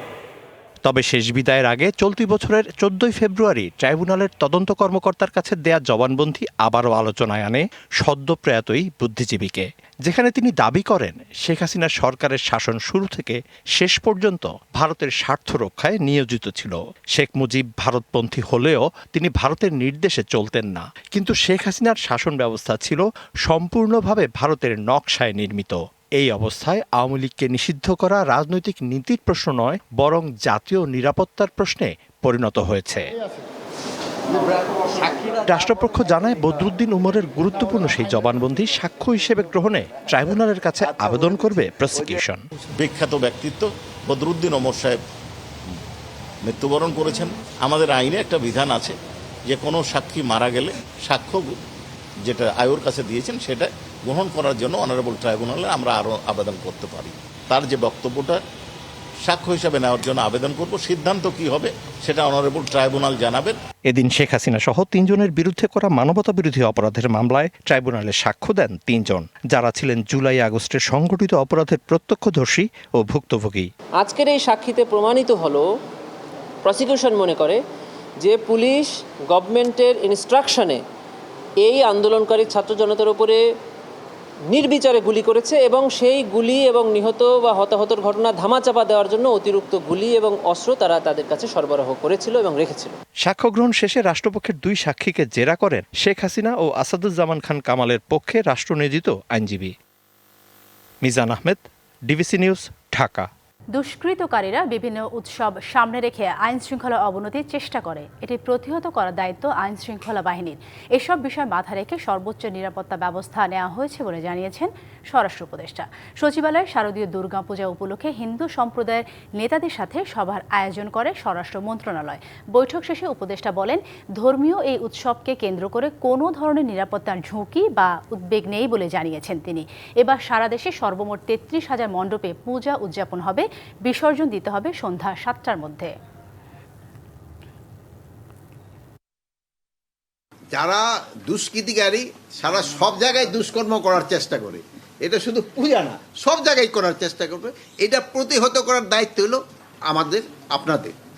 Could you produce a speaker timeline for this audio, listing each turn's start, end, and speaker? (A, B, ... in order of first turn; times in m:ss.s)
0:00.8-0:33.1 A
0:35.4-0:42.4 A
0:42.7-0:45.0 B
0:46.4-0:49.0 B
0:49.5-0:51.6 B
0:52.3-0:58.4 B
0:59.2-1:03.6 B
1:03.9-1:13.7 A
1:14.0-1:15.6 C
1:16.6-1:17.6 C
1:18.2-1:20.8 C
1:21.6-1:23.4 C
1:24.5-1:32.9 C
1:33.2-1:39.7 A
1:41.0-1:43.3 A
1:43.7-2:15.9 D
2:20.5-2:30.9 E